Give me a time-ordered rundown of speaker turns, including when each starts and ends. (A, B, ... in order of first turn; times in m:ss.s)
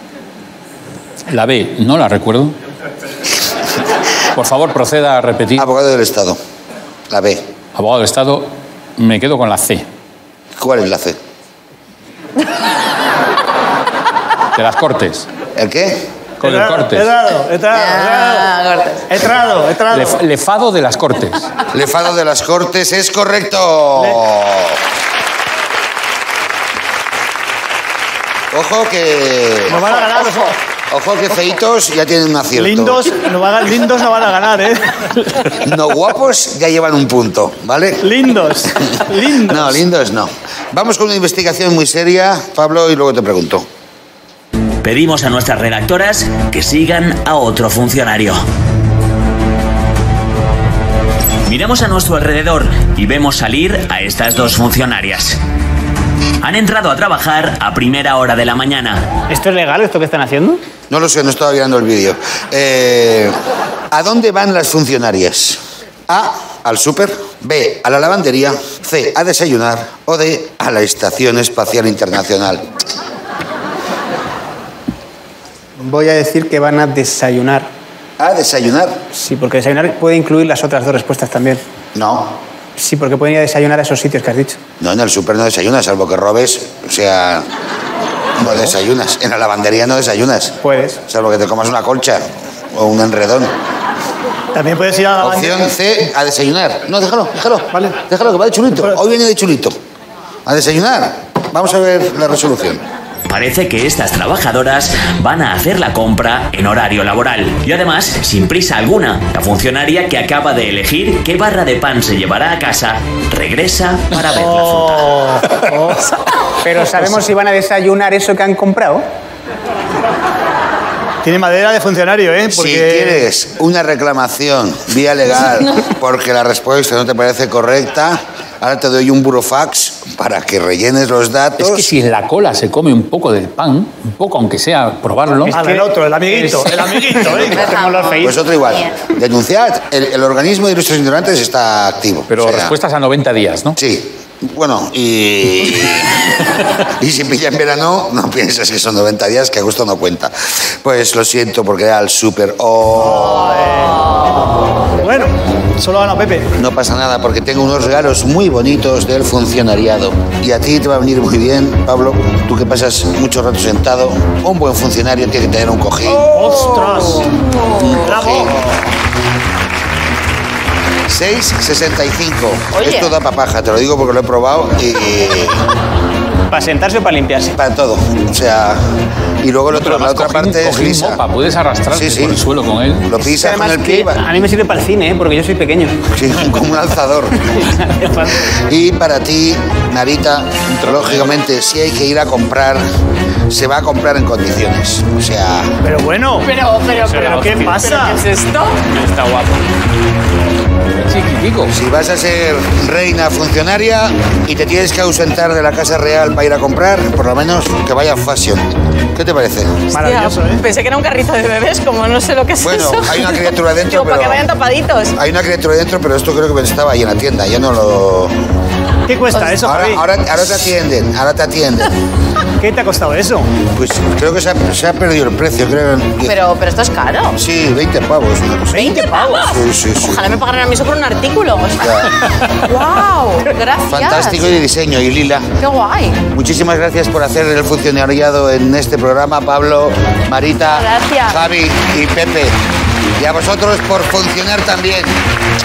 0:01.3-0:02.6 A
0:04.4-0:05.7 A
0:05.6-0:06.4 B
0:07.1-0:07.4 B
0:07.8-0:09.9 A
0:10.6-0:11.2 B
0:14.5-0:15.3 A
0:15.6-0:16.1 B
0:16.4-0:18.5 C
0:16.4-0:17.1 A
0:17.7-0:19.0 D
0:19.1-0:20.2 C
0:19.9-0:21.5 A
0:21.7-0:24.8 B
0:28.5-0:29.9 B
0:29.7-0:30.5 C
0:30.9-0:33.1 B
0:32.5-0:35.1 C
0:35.5-0:38.2 B
0:38.0-0:39.8 C
0:39.0-0:43.7 B
0:44.8-0:48.4 E
0:51.4-0:55.4 E
0:56.4-0:59.1 E
0:59.3-1:00.6 F
1:00.9-1:03.4 B
1:03.9-1:12.7 B
1:15.8-1:17.7 F
1:18.2-1:19.0 B
1:19.1-1:21.6 F
1:22.0-1:22.4 B
1:22.8-1:24.6 F
1:24.8-1:27.5 B
1:28.4-1:33.5 B
1:30.6-1:31.0 F
1:34.5-1:35.6 C
1:35.2-1:39.8 B
1:40.5-1:42.8 B
1:43.3-1:55.2 E
1:54.3-1:55.8 C
1:55.6-1:56.1 F
1:56.6-1:59.0 F
2:01.2-2:03.2 C
2:02.5-2:11.9 B
2:11.6-2:15.6 A
2:15.5-2:18.4 F
2:15.5-2:17.6 C
2:17.4-2:19.0 D
2:18.2-2:22.7 B
2:22.3-2:23.8 A
2:23.8-2:33.8 B
2:32.9-2:34.2 C
2:35.0-2:36.5 C
2:36.6-2:47.0 B
2:46.0-2:47.3 C
2:47.5-2:48.0 D
2:47.7-2:48.7 B
2:48.0-2:48.7 C
2:51.1-2:55.7 B
2:52.7-2:53.1 D
2:56.5-2:57.6 F
2:57.5-2:58.8 B
2:59.4-3:01.2 B
2:59.7-3:03.1 A
3:01.9-3:02.4 B
3:03.0-3:04.2 B
3:03.2-3:06.0 F
3:06.1-3:07.7 B
3:07.6-3:08.5 F
3:08.3-3:12.8 B
3:10.7-3:11.3 A
3:13.5-3:15.8 B
3:15.8-3:16.5 C
3:16.4-3:18.9 D
3:17.0-3:17.7 F
3:17.2-3:18.2 C
3:19.0-3:19.6 F
3:20.9-3:21.7 A
3:21.7-3:29.9 B
3:29.9-3:30.6 C
3:30.0-3:35.2 D
3:32.6-3:34.4 B
3:35.2-3:38.3 B
3:39.1-3:40.1 C
3:39.6-3:42.0 B
3:42.6-3:43.5 C
3:43.8-3:46.4 B
3:46.2-3:47.4 D
3:47.4-3:50.4 B
3:48.7-3:49.4 C
3:48.7-3:54.6 D
3:51.8-3:52.2 B
3:53.9-3:55.5 B
3:55.6-3:56.2 D
3:56.3-4:02.6 B
4:00.6-4:01.4 D
4:03.2-4:05.2 B